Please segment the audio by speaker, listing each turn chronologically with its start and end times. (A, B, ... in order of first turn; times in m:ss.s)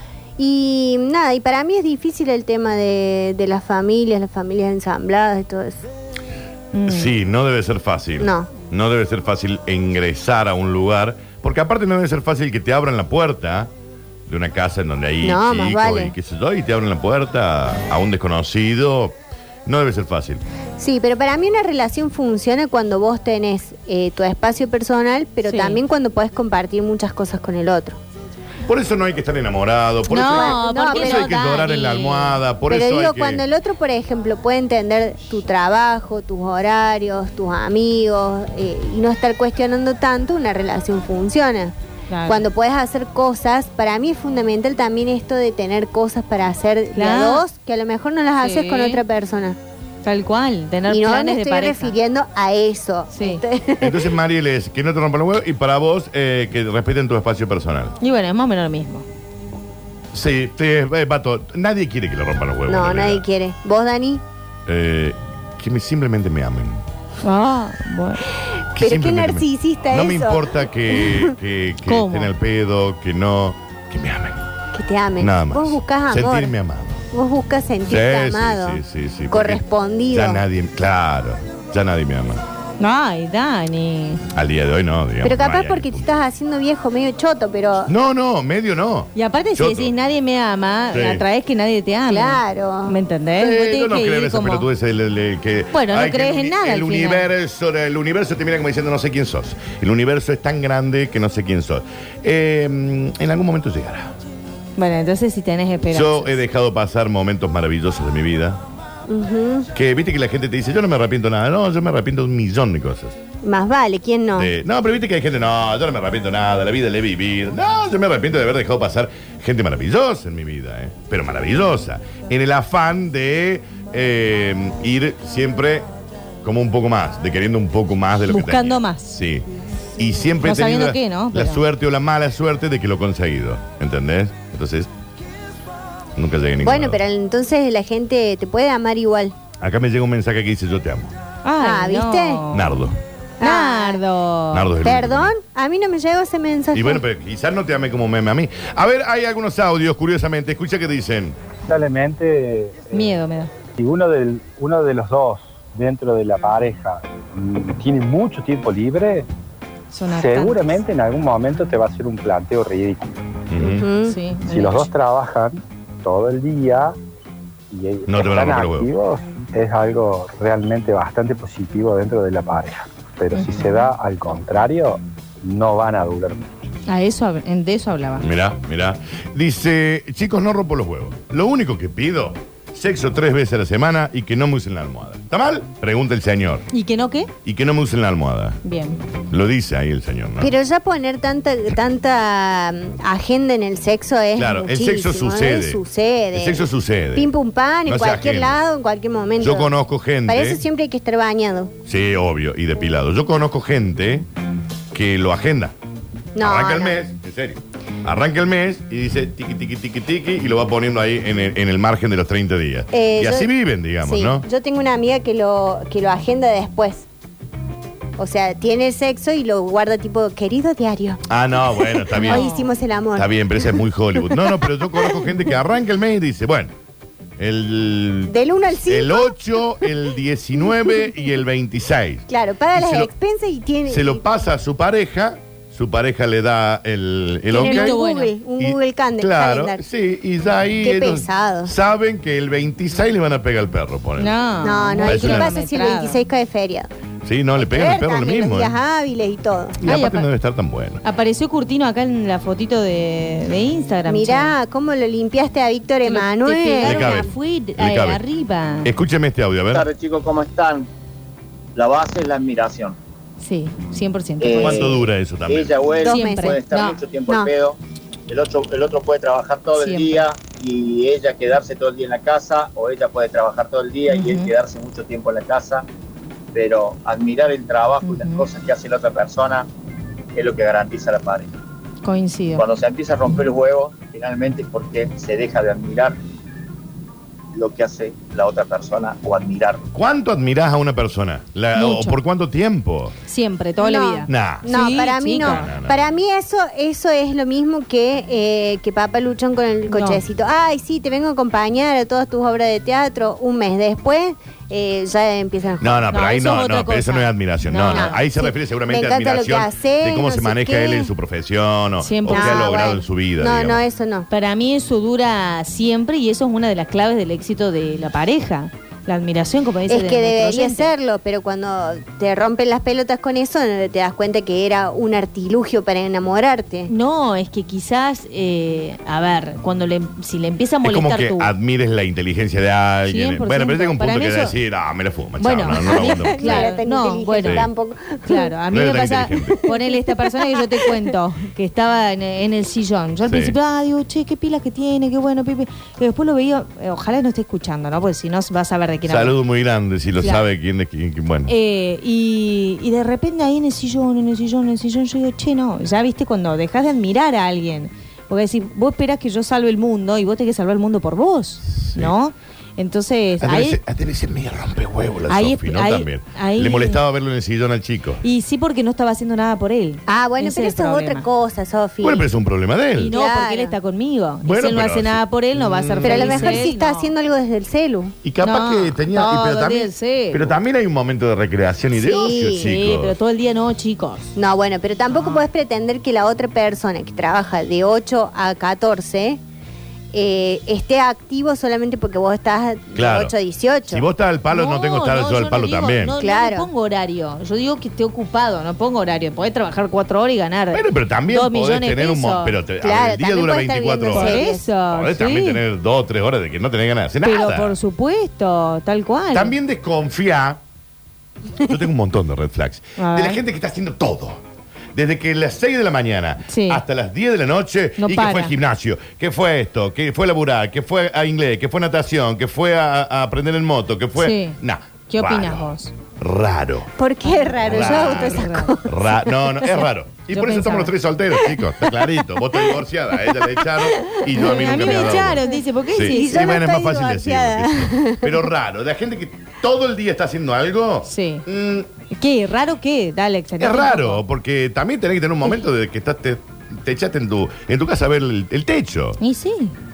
0:00.4-0:05.8 A
0:06.7-0:07.1 B
0:06.9-0:13.7 C
0:08.2-0:08.5 A
0:14.3-0:20.4 C
0:15.2-0:16.1 A
0:20.8-0:28.0 A
0:25.4-0:25.8 B
0:28.7-0:33.4 C
0:30.1-0:32.4 B
0:30.2-0:31.4 A
0:32.7-0:41.8 A
0:42.1-0:42.4 B
0:42.3-0:49.6 A
0:47.0-0:47.4 B
0:48.4-0:49.0 B
0:50.0-0:52.0 B
0:50.9-0:54.0 A
0:53.1-0:53.4 B
0:53.8-0:58.0 C
0:58.0-0:59.0 B
1:00.1-1:03.2 C
1:02.7-1:04.2 A
1:04.7-1:06.8 C
1:07.2-1:08.2 B
1:08.8-1:11.3 A
1:08.8-1:14.4 C
1:11.8-1:12.3 B
1:14.7-1:16.5 A
1:15.2-1:17.1 C
1:17.1-1:18.8 A
1:17.9-1:22.4 C
1:19.3-1:20.4 A
1:22.8-1:24.2 B
1:24.3-1:26.1 C
1:25.2-1:27.9 A
1:27.9-1:29.9 C
1:29.2-1:34.7 B
1:30.9-1:31.2 C
1:32.1-1:33.0 A
1:33.4-1:44.1 C
1:35.7-1:37.3 B
1:44.8-1:46.4 B
1:45.9-1:48.6 C
1:49.1-1:49.7 A
1:49.7-1:53.2 C
1:53.4-1:54.5 A
1:54.4-2:05.9 C
2:06.4-2:14.9 C
2:08.3-2:09.2 B
2:10.4-2:11.6 B
2:16.2-2:17.0 C
2:16.6-2:19.4 A
2:19.6-2:21.1 C
2:21.4-2:22.7 B
2:21.6-2:22.4 A
2:22.5-2:23.0 C
2:23.4-2:24.0 A
2:23.4-2:24.8 B
2:24.5-2:25.3 C
2:24.8-2:27.0 A
2:26.7-2:31.4 C
2:31.6-2:33.2 D
2:32.9-2:33.5 B
2:33.8-2:39.3 D
2:39.9-2:40.8 B
2:40.1-2:43.2 D
2:43.5-2:43.9 C
2:43.6-2:44.2 A
2:44.0-2:44.9 B
2:44.4-2:47.0 D
2:47.7-2:56.5 D
2:48.1-2:48.9 C
2:53.3-2:53.7 B
2:56.9-2:58.2 B
2:58.2-3:06.7 C
3:06.7-3:07.3 B
3:07.4-3:08.6 C
3:08.6-3:09.0 B
3:09.3-3:10.5 C
3:10.4-3:19.7 A
3:14.4-3:15.8 C
3:16.3-3:17.3 C
3:17.9-3:18.6 C
3:19.4-3:20.6 C
3:20.3-3:21.7 A
3:21.9-3:24.3 C
3:24.9-3:25.8 C
3:26.4-3:27.0 A
3:26.4-3:34.4 C
3:32.9-3:33.5 A
3:34.0-3:37.1 A
3:38.2-3:41.2 A
3:41.3-3:42.5 C
3:42.1-3:45.3 A
3:42.2-3:42.7 B
3:43.2-3:46.7 C
3:47.4-3:48.4 C
3:48.3-3:49.4 A
3:48.9-3:53.1 C
3:52.3-3:54.2 A
3:53.9-3:58.0 C
3:57.5-3:59.8 A
3:57.5-3:58.3 B
3:58.6-4:04.4 C
4:00.8-4:01.7 A
4:04.2-4:06.2 B
4:04.6-4:06.9 A
4:05.0-4:05.5 C
4:07.2-4:08.8 C
4:07.6-4:09.8 A
4:09.8-4:11.0 C
4:09.8-4:10.3 B
4:11.0-4:14.5 B
4:14.1-4:17.3 A
4:16.0-4:18.9 B
4:16.8-4:18.2 C
4:18.8-4:19.9 C
4:19.7-4:20.9 E
4:21.8-4:23.0 E
4:23.4-4:24.9 B
4:24.4-4:35.8 E
4:24.6-4:25.9 C
4:26.0-4:26.6 A
4:26.0-4:27.0 B
4:29.8-4:30.2 B
4:34.1-4:34.5 B
4:36.5-4:39.7 E
4:38.0-4:38.4 B
4:40.4-4:41.5 E
4:42.0-4:42.6 B
4:42.6-4:46.2 E
4:47.5-4:49.8 E
4:49.9-4:53.2 C
4:51.8-4:52.2 B
4:53.3-4:55.7 B
4:53.8-5:06.1 A
4:54.3-4:56.0 C
4:59.9-5:00.2 B
5:05.8-5:13.8 C
5:06.1-5:08.2 B
5:07.9-5:11.1 A
5:12.0-5:12.7 B
5:12.3-5:14.3 A
5:14.3-5:20.9 B
5:19.9-5:26.9 A
5:26.9-5:31.5 B
5:30.8-5:36.8 C
5:33.1-5:34.6 B
5:35.4-5:37.7 B
5:35.8-5:38.5 A
5:37.4-5:37.7 C
5:38.2-5:49.4 B
5:38.7-5:39.6 C
5:39.6-5:40.7 A
5:43.3-5:43.6 C
5:49.0-5:51.5 C
5:50.2-5:50.4 B
5:51.5-6:03.8 B
6:01.7-6:02.1 C
6:03.4-6:08.2 C
6:05.3-6:07.0 B
6:08.2-6:11.3 B
6:10.1-6:12.3 A
6:12.0-6:13.2 C
6:13.0-6:17.1 B
6:13.1-6:13.8 A
6:14.4-6:16.7 C
6:16.0-6:18.2 A
6:18.2-6:23.2 C
6:18.4-6:20.5 B
6:21.9-6:22.7 A
6:22.5-6:24.3 B
6:24.4-6:29.4 A
6:25.1-6:25.5 B
6:30.1-6:34.0 A
6:33.0-6:33.4 C
6:33.9-6:36.2 C
6:34.5-6:42.6 B
6:36.2-6:36.7 A
6:40.7-6:47.8 C
6:42.8-6:44.7 A
6:44.1-6:45.6 B
6:47.2-6:49.6 B
6:49.3-6:50.6 C
6:51.6-6:54.4 C
6:53.0-6:53.4 B
6:54.9-7:06.9 C
6:56.5-6:56.8 B
6:58.0-6:58.5 B
7:04.2-7:04.6 B
7:05.1-7:05.9 B
7:07.0-7:09.8 A
7:07.2-7:08.8 B
7:07.6-7:21.9 C
7:10.3-7:10.9 B
7:11.4-7:18.4 A
7:14.4-7:16.5 B
7:21.0-7:21.4 B
7:22.1-7:24.2 B
7:23.6-7:29.2 C
7:29.2-7:29.7 B